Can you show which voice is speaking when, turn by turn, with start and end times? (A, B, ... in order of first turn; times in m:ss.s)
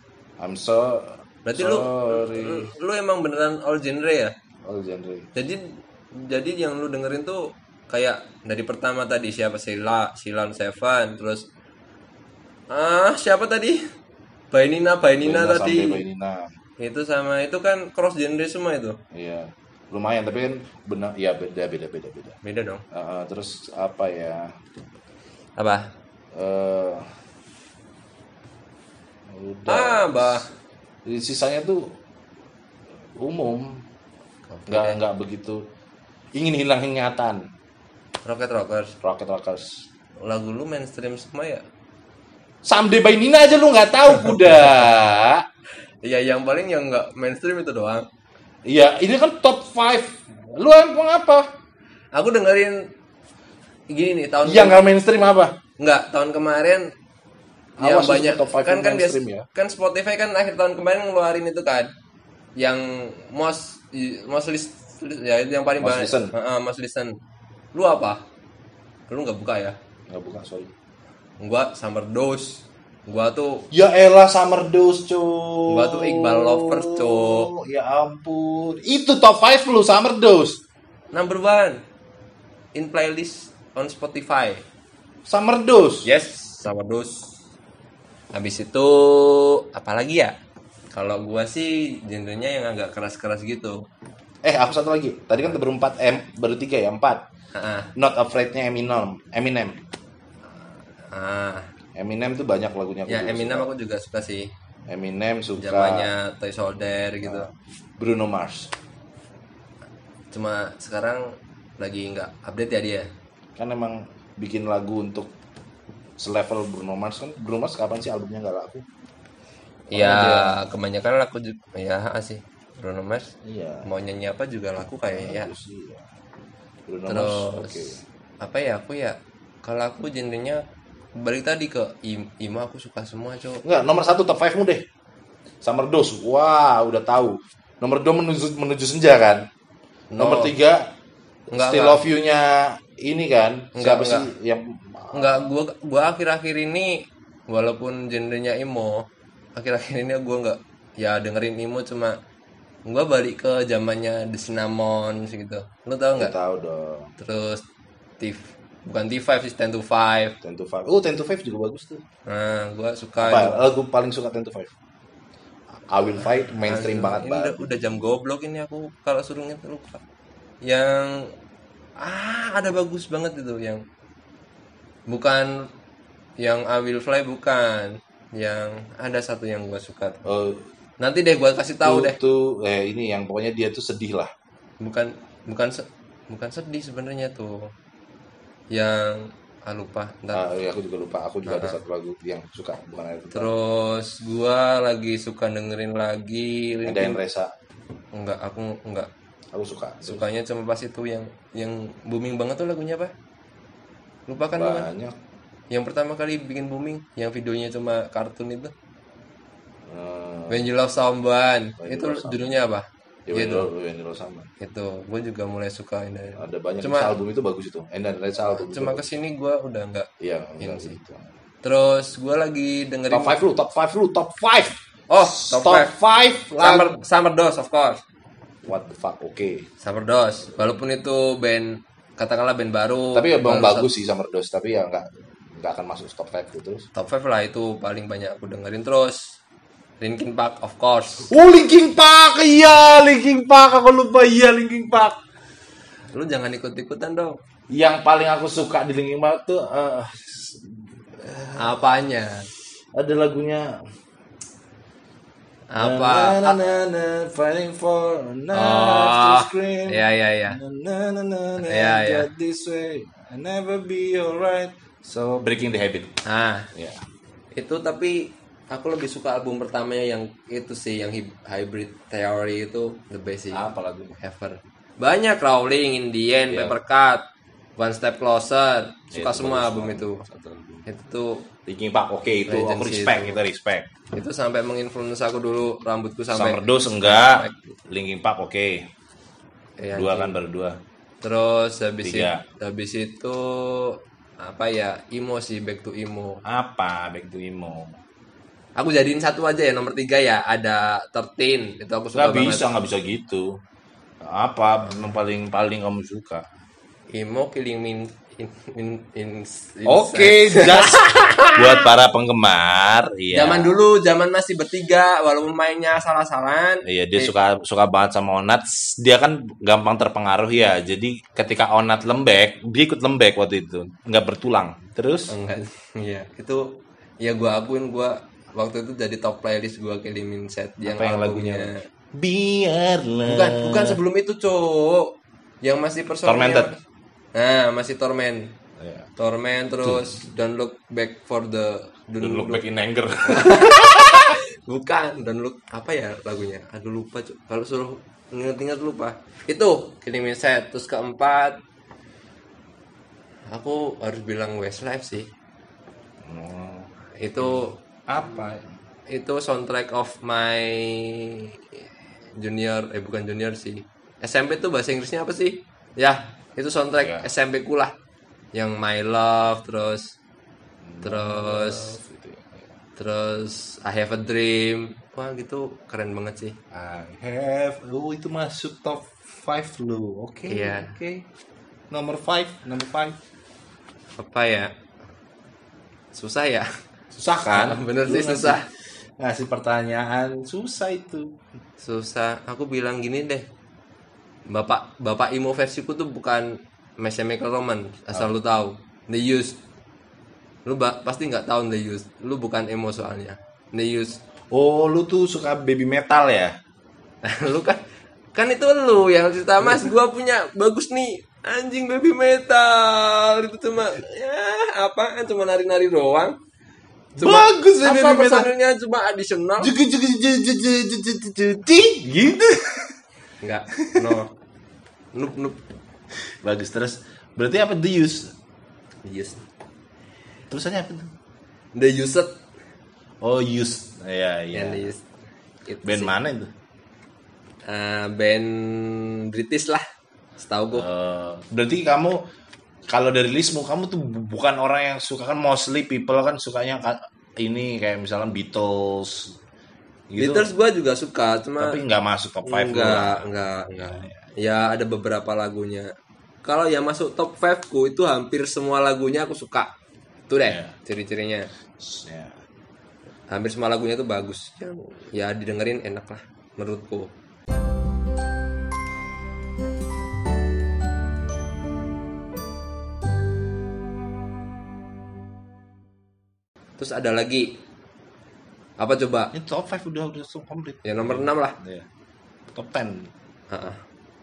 0:00.4-0:02.7 A
0:01.4-0:04.3 B
0:04.6-0:05.3 A
0:05.3-0:11.4 B
0:12.7-0:13.8 B
0:14.5-0:16.0 B
0:15.2-0:16.5 A
0:16.8-0:19.0 B
0:19.1-0:22.4 A
0:22.4-0:22.8 B
0:22.9-0:24.5 A
0:25.6-0:25.9 B
0:26.3-0:27.1 A
0:29.3-0:30.5 A
0:29.7-0:30.5 B
0:31.0-0:31.9 A
0:33.2-0:33.8 A
0:34.5-0:35.0 B
0:34.7-0:35.6 A
0:36.3-0:37.4 A
0:38.2-0:38.9 B
0:39.0-0:39.8 A
0:40.2-0:41.6 B
0:42.6-0:45.4 A
0:46.0-0:48.1 B
0:48.6-0:51.5 A
0:52.1-0:52.9 B
0:53.9-0:54.8 B
0:54.4-0:55.6 A
0:55.8-0:56.9 B
0:57.8-0:59.4 A
0:57.8-1:01.9 B
1:02.6-1:07.2 B
1:05.8-1:06.3 A
1:07.7-1:08.2 B
1:09.1-1:09.8 B
1:10.1-1:10.7 A
1:11.4-1:13.7 B
1:13.7-1:20.6 A
1:15.7-1:17.5 B
1:21.1-1:21.8 B
1:22.7-1:24.6 B
1:25.2-1:26.1 A
1:26.0-1:27.3 B
1:28.3-1:30.3 B
1:30.9-1:33.8 B
1:34.4-1:37.2 A
1:37.5-1:37.9 B
1:37.9-1:39.8 A
1:41.1-1:41.7 B
1:42.0-1:43.7 A
1:43.1-1:44.5 B
1:44.9-1:46.1 A
1:45.6-1:47.5 B
1:47.2-1:48.7 A
1:50.3-1:53.1 B
1:53.6-1:55.3 A
1:56.2-1:58.8 A
1:59.9-2:03.3 B
1:59.9-2:00.6 A
2:03.4-2:03.9 A
2:03.8-2:05.5 B
2:05.1-2:06.0 A
2:06.9-2:08.0 A
2:07.1-2:07.9 B
2:08.4-2:10.6 B
2:11.2-2:13.6 B
2:13.6-2:14.8 A
2:15.6-2:19.5 A
2:20.1-2:20.5 B
2:20.2-2:20.9 A
2:21.5-2:25.5 A
2:21.5-2:22.0 B
2:23.7-2:24.3 B
2:25.1-2:32.2 B
2:32.8-2:36.3 B
2:36.2-2:37.1 A
2:37.2-2:37.6 B
2:38.2-2:40.4 B
2:40.4-2:42.0 A
2:42.3-2:43.6 B
2:43.2-2:44.7 A
2:45.9-2:48.0 A
2:46.6-2:50.0 B
2:50.6-2:51.3 B
2:52.0-2:53.8 B
2:55.1-2:55.7 B
2:56.4-3:00.2 B
3:00.2-3:00.6 A
3:01.0-3:02.2 B
3:01.8-3:04.3 A
3:04.8-3:07.7 B
3:08.7-3:10.4 B
3:10.3-3:13.5 A
3:11.4-3:11.8 B
3:13.3-3:17.2 B
3:16.8-3:17.5 A
3:18.1-3:19.1 B
3:19.5-3:20.2 A
3:20.0-3:23.1 B
3:24.3-3:24.9 B
3:24.6-3:25.2 A
3:25.7-3:28.7 B
3:29.8-3:30.7 A
3:30.5-3:33.7 B
3:31.8-3:32.5 A
3:33.3-3:34.5 A
3:34.6-3:37.1 B
3:36.4-3:39.1 A
3:38.5-3:40.1 B
3:40.2-3:41.3 A
3:40.6-3:41.0 B
3:41.6-3:43.4 B
3:43.1-3:47.0 A
3:45.1-3:45.9 B
3:46.6-3:48.0 B
3:48.6-3:49.7 A
3:49.8-3:53.9 B
3:53.1-3:56.9 A
3:56.9-3:59.3 B
4:00.0-4:01.3 B
4:01.3-4:05.2 A
4:06.1-4:07.4 B
4:07.7-4:11.8 A
4:11.6-4:12.5 B
4:12.9-4:13.7 A
4:15.7-4:16.6 B
4:15.8-4:26.2 A
4:18.5-4:20.6 B
4:21.6-4:22.3 B
4:26.2-4:26.7 B
4:26.7-4:27.0 A
4:27.5-4:33.6 B
4:33.5-4:34.2 A
4:34.2-4:37.2 B
4:36.5-4:36.7 A
4:37.8-4:40.2 B
4:39.1-4:40.8 A
4:40.8-4:41.4 B
4:41.6-4:43.9 A
4:42.5-4:43.4 B
4:44.1-4:47.7 B
4:46.3-4:48.9 A
4:49.8-4:50.3 B
4:49.9-4:50.8 A
4:51.2-4:56.4 B
4:52.0-4:52.4 A
4:56.4-4:58.0 A
4:58.8-5:02.6 B
5:02.1-5:03.6 A
5:04.2-5:06.5 A
5:07.1-5:11.8 B
5:09.8-5:13.8 A
5:13.3-5:17.3 B
5:16.8-5:25.3 A
5:25.3-5:26.7 B
5:27.2-5:31.8 B
5:30.8-5:34.0 A
5:33.3-5:36.8 B
5:36.2-5:36.7 A
5:37.3-5:38.5 B
5:38.8-5:39.1 A
5:39.2-5:42.6 B
5:39.8-5:40.2 A
5:42.2-5:44.3 A
5:43.2-5:51.6 B
5:53.5-5:55.3 B
5:56.2-5:58.7 A
5:57.2-5:57.8 B
5:59.1-6:01.5 B
6:02.4-6:07.9 B
6:07.0-6:07.3 A
6:08.5-6:10.1 B
6:10.8-6:12.7 A
6:11.0-6:12.0 B
6:13.0-6:16.6 B
6:16.7-6:21.2 A
6:20.5-6:20.9 B
6:21.9-6:23.2 A
6:24.2-6:24.7 B
6:26.1-6:26.7 B
6:27.1-6:31.4 A
6:27.6-6:28.6 B
6:31.8-6:33.4 B
6:34.5-6:39.6 B
6:40.6-6:44.2 B
6:44.5-6:46.5 A
6:47.2-6:47.8 B
6:48.3-6:56.4 B
6:49.6-6:49.9 A
6:57.2-6:58.5 A
6:57.2-6:59.7 B
6:59.6-7:02.9 A
7:03.4-7:04.3 B
7:03.8-7:04.2 A
7:05.1-7:05.6 B
7:06.4-7:08.3 A
7:09.0-7:09.4 B
7:10.5-7:11.1 A
7:11.7-7:12.3 B
7:13.2-7:14.9 A
7:14.5-7:15.0 B
7:15.6-7:16.1 B
7:15.8-7:16.5 A
7:17.7-7:19.8 B
7:20.4-7:20.8 B
7:20.7-7:22.2 A
7:22.9-7:29.4 A
7:30.1-7:30.5 A
7:30.2-7:31.8 B
7:31.6-7:34.2 A
7:32.4-7:35.9 B
7:36.4-7:39.7 B
7:40.3-7:41.5 B
7:40.4-7:40.7 A
7:41.8-7:42.3 A
7:43.3-7:47.1 B
7:56.8-7:57.5 B
7:58.8-7:59.3 B
7:59.3-8:01.8 A
8:00.8-8:01.6 B
8:02.5-8:03.1 A
8:03.5-8:03.8 B